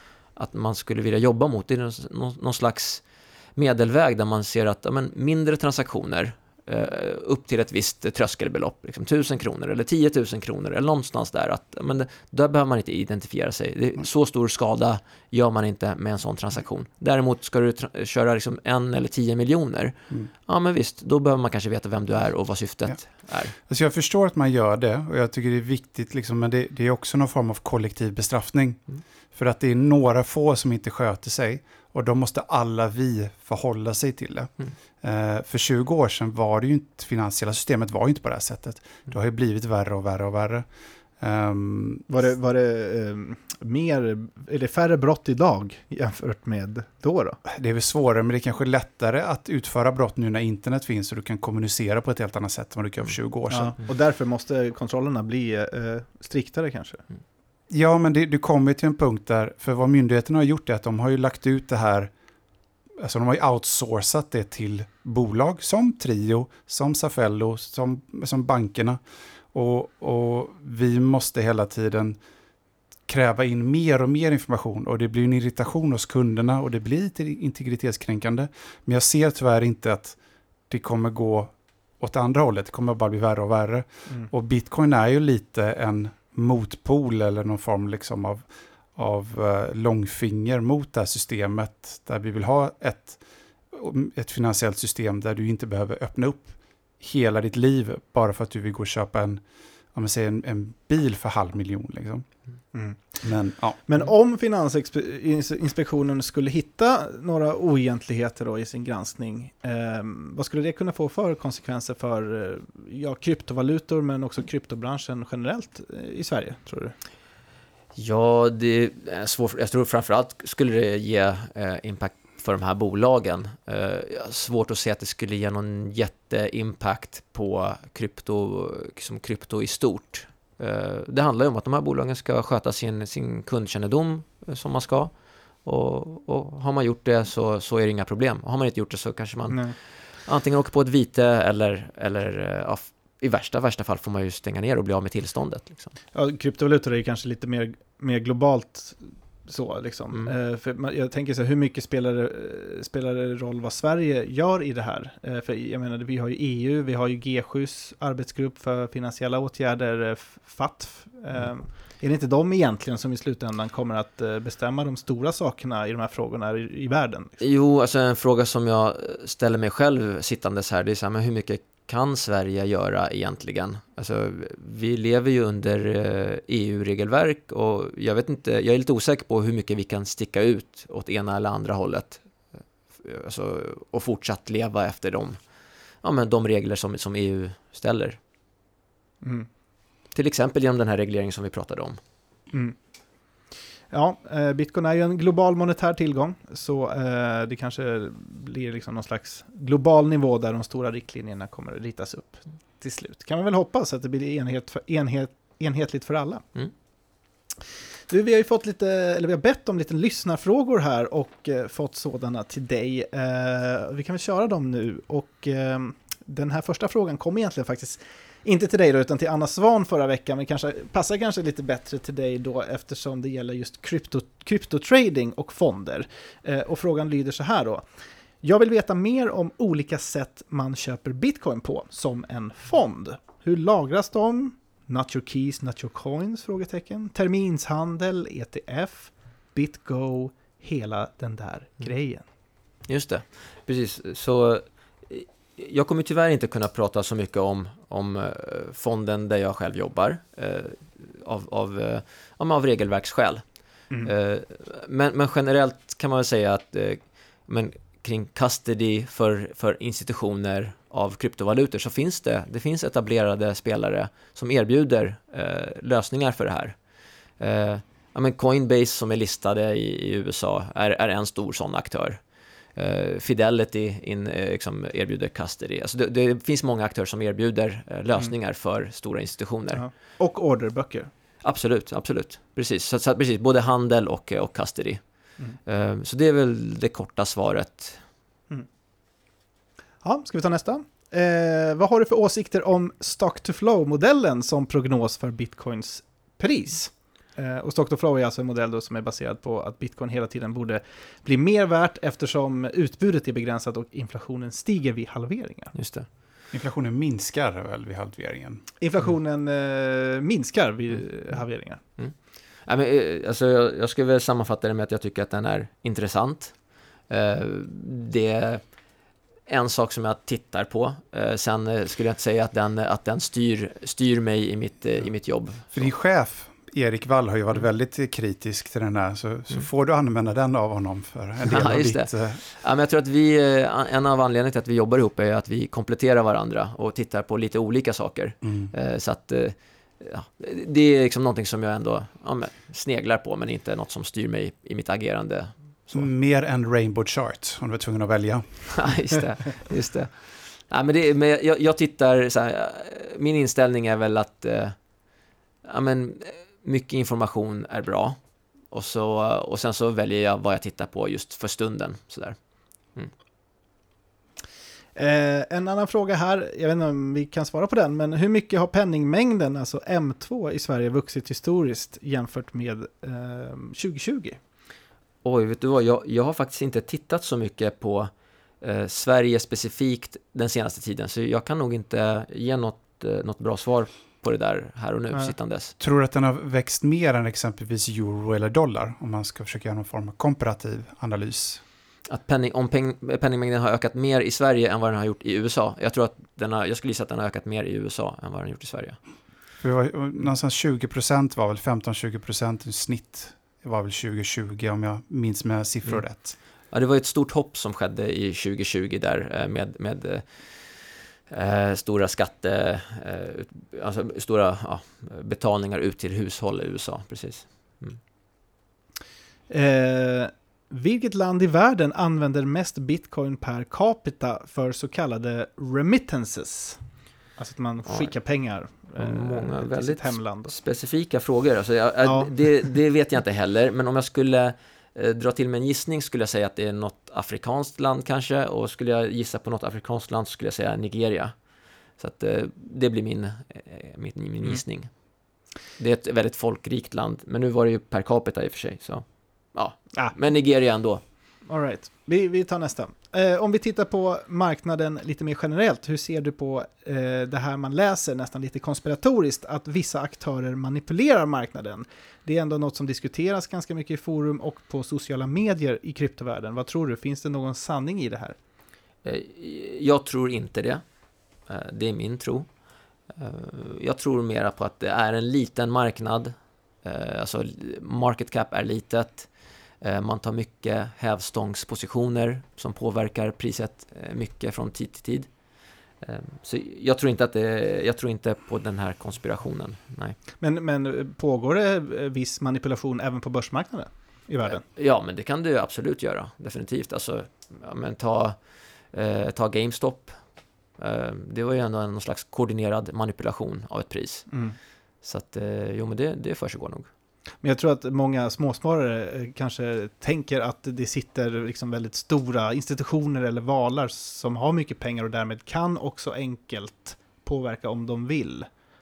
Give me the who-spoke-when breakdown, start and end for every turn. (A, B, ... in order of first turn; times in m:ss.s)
0:00.4-0:03.0 A
0:03.6-0:23.6 A
0:23.6-0:40.7 B
0:41.2-0:42.1 B
0:42.1-0:47.4 C
0:47.5-0:53.8 B
0:53.5-0:57.0 C
0:57.7-1:02.1 B
1:03.0-1:09.0 B
1:09.5-1:12.2 B
1:13.1-1:20.2 B
1:20.7-1:33.2 B
1:33.7-1:39.4 B
1:39.9-1:42.3 B
1:42.7-1:43.3 C
1:43.2-1:43.8 B
1:43.9-1:57.0 C
1:58.0-2:15.1 A
2:15.6-2:25.9 A
2:19.5-2:19.8 C
2:26.1-2:47.4 C
2:47.4-3:02.2 A
3:03.0-3:05.4 A
3:06.0-3:08.2 A
3:09.2-3:09.5 C
3:10.1-3:12.0 A
3:13.9-3:26.4 C
3:28.1-3:47.8 C
3:48.4-4:02.2 C
4:02.9-4:13.4 A
4:14.0-4:26.8 A
4:27.4-4:32.2 A
4:32.8-4:39.8 A
4:39.7-4:41.1 C
4:41.4-4:45.0 A
4:45.7-4:48.0 A
4:50.0-5:05.7 C
5:05.7-5:06.1 A
5:06.5-5:08.6 B
5:08.8-5:11.8 C
5:12.0-5:16.6 A
5:17.1-5:18.6 A
5:19.5-5:25.8 A
5:25.7-5:32.4 B
5:31.4-5:46.1 A
5:38.4-5:38.7 B
5:45.9-5:48.7 B
5:48.7-5:54.8 A
5:55.6-5:58.2 A
5:58.7-6:02.4 A
6:05.0-6:14.4 C
6:15.2-6:25.7 A
6:25.8-6:31.6 B
6:32.1-6:39.0 A
6:39.6-6:46.4 B
6:46.7-6:58.0 A
6:59.5-7:06.8 C
7:07.4-7:10.6 C
7:07.9-7:08.1 A
7:09.0-7:21.4 A
7:12.0-7:12.3 C
7:22.0-7:24.9 A
7:25.8-7:31.0 A
7:31.5-7:48.4 C
7:49.0-7:50.8 A
7:51.5-7:52.5 A
7:53.2-7:59.3 A
7:59.8-8:05.3 A
8:06.0-8:10.2 A
8:10.4-8:14.6 C
8:14.4-8:18.4 A
8:18.9-8:20.2 A
8:20.8-8:24.3 A
8:24.3-8:24.6 C
8:25.0-8:26.9 A
8:27.4-8:38.5 C